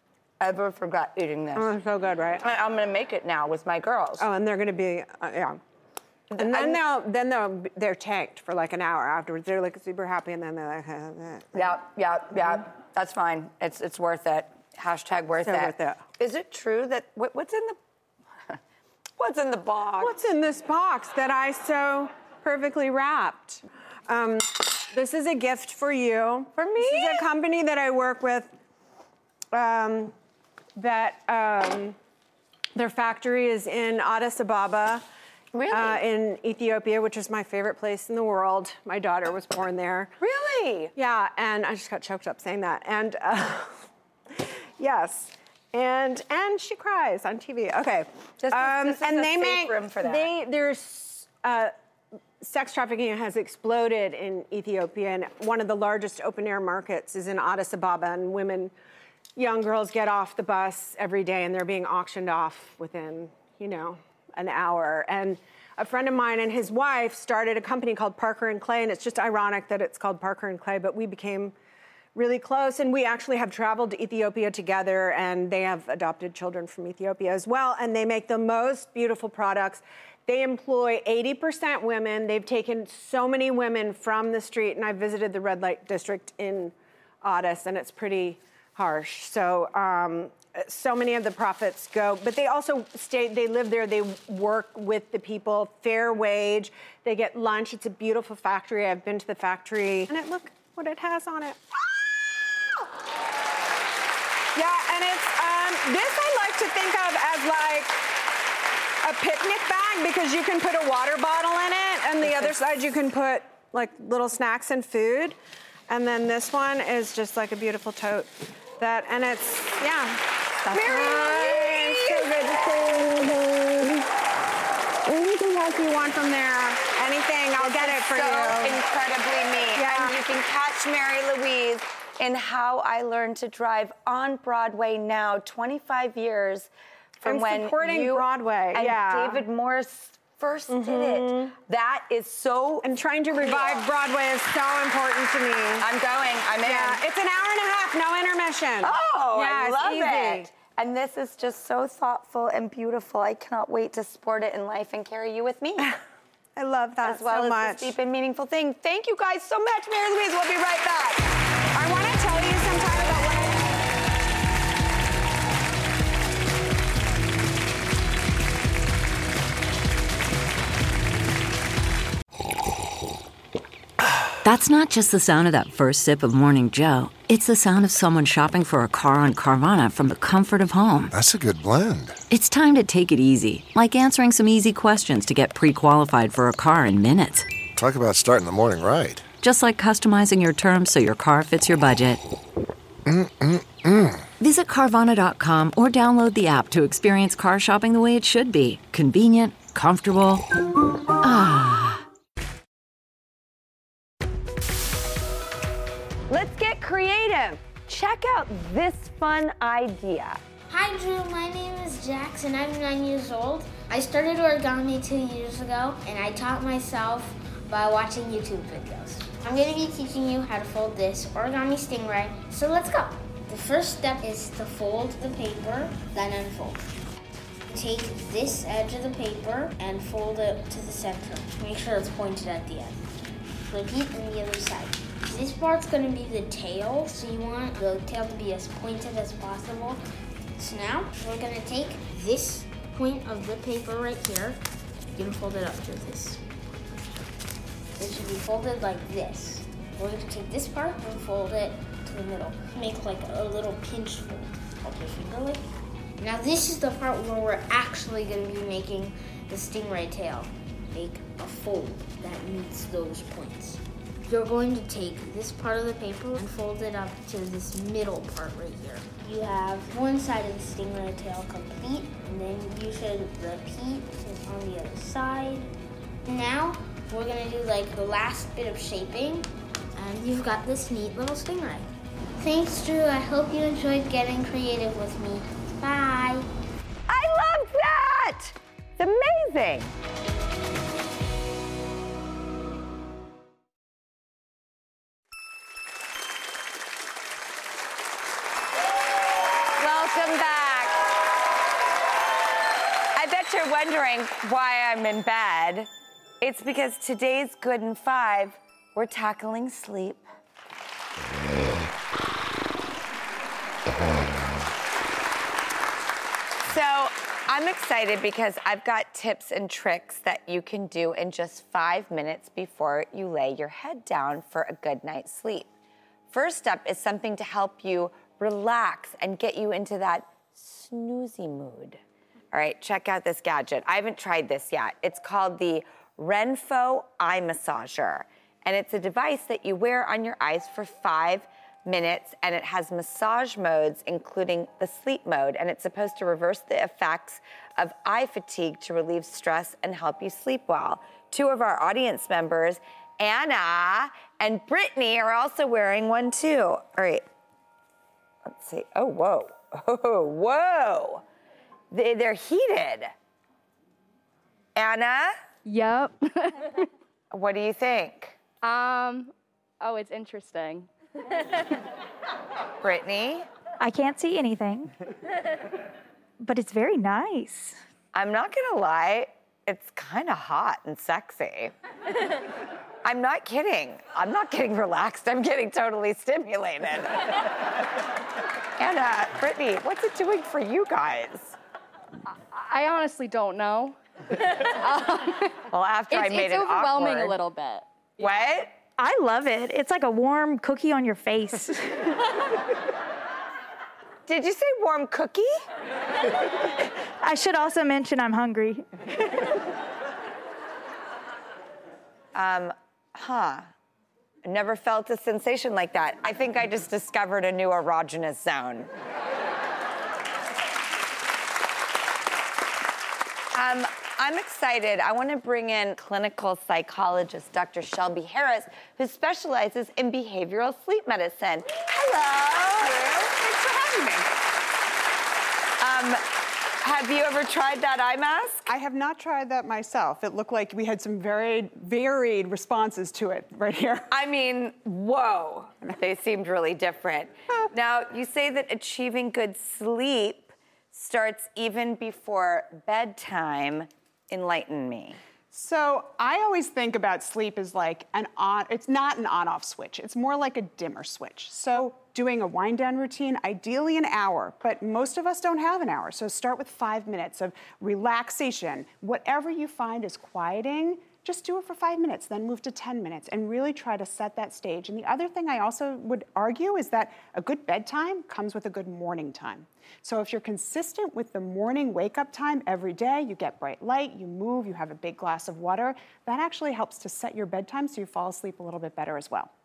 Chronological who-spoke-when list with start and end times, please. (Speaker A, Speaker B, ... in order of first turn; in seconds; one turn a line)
Speaker A: 0.4-1.7
Speaker B: 1.6-2.4
Speaker A: 2.4-4.3
Speaker B: 4.2-5.6
Speaker A: 6.3-6.8
Speaker B: 6.4-11.7
Speaker A: 11.5-17.8
Speaker B: 15.4-16.0
Speaker A: 19.2-20.2
Speaker B: 20.0-28.5
Speaker A: 26.6-27.3
Speaker B: 29.5-30.1
Speaker B: 30.8-32.0
Speaker B: 32.8-35.0
Speaker A: 35.5-36.0
Speaker B: 35.7-40.1
Speaker A: 40.2-40.9
Speaker B: 41.0-51.7
Speaker A: 48.4-50.3
Speaker B: 52.4-58.7
Speaker B: 59.4-71.5
Speaker B: 72.2-102.7
Speaker B: 104.5-108.0
Speaker B: 109.0-115.4
Speaker B: 115.9-124.0
Speaker A: 120.7-122.5
Speaker B: 125.0-128.8
Speaker A: 127.6-143.9
Speaker B: 129.8-130.2
Speaker B: 137.2-139.4
Speaker B: 140.7-141.5
Speaker B: 142.8-145.9
Speaker A: 145.8-147.0
Speaker B: 146.6-150.5
Speaker A: 148.8-155.9
Speaker B: 156.6-157.9
Speaker A: 157.0-161.2
Speaker B: 161.7-163.7
Speaker C: 174.4-181.1
Speaker D: 181.1-182.2
Speaker C: 182.3-187.5
Speaker D: 187.8-189.2
Speaker C: 189.4-192.2
Speaker D: 193.1-194.2
Speaker C: 194.4-200.4
Speaker C: 201.2-202.0
Speaker A: 206.3-210.4
Speaker E: 210.7-226.8
Speaker E: 227.7-233.0
Speaker E: 233.7-240.0
Speaker E: 240.6-244.6
Speaker E: 245.2-246.4
Speaker E: 248.0-255.6
Speaker E: 256.2-275.7
Speaker E: 276.3-286.5
Speaker A: 287.1-289.9
Speaker A: 299.8-301.0
Speaker A: 303.1-305.9
Speaker A: 306.4-310.2
Speaker A: 316.6-325.7
Speaker A: 326.3-332.0
Speaker A: 332.5-357.2
Speaker A: 358.5-361.2
Speaker A: 361.9-363.1
Speaker A: 364.8-365.4
Speaker F: 365.6-366.9
Speaker A: 367.3-368.4
Speaker F: 368.6-371.6
Speaker A: 372.8-373.5
Speaker G: 373.8-375.0
Speaker G: 376.4-377.8
Speaker A: 378.1-381.7
Speaker A: 383.0-387.4
Speaker A: 388.8-391.6
Speaker F: 392.5-398.5
Speaker A: 395.7-397.4
Speaker A: 398.2-398.7
Speaker G: 399.0-402.1
Speaker A: 404.3-405.6
Speaker G: 407.2-408.9
Speaker A: 412.3-413.7
Speaker A: 414.4-418.9
Speaker A: 423.5-433.1
Speaker H: 433.2-434.2
Speaker A: 435.8-436.2
Speaker A: 436.8-438.7
Speaker H: 438.7-444.1
Speaker A: 444.1-455.2
Speaker H: 455.5-489.5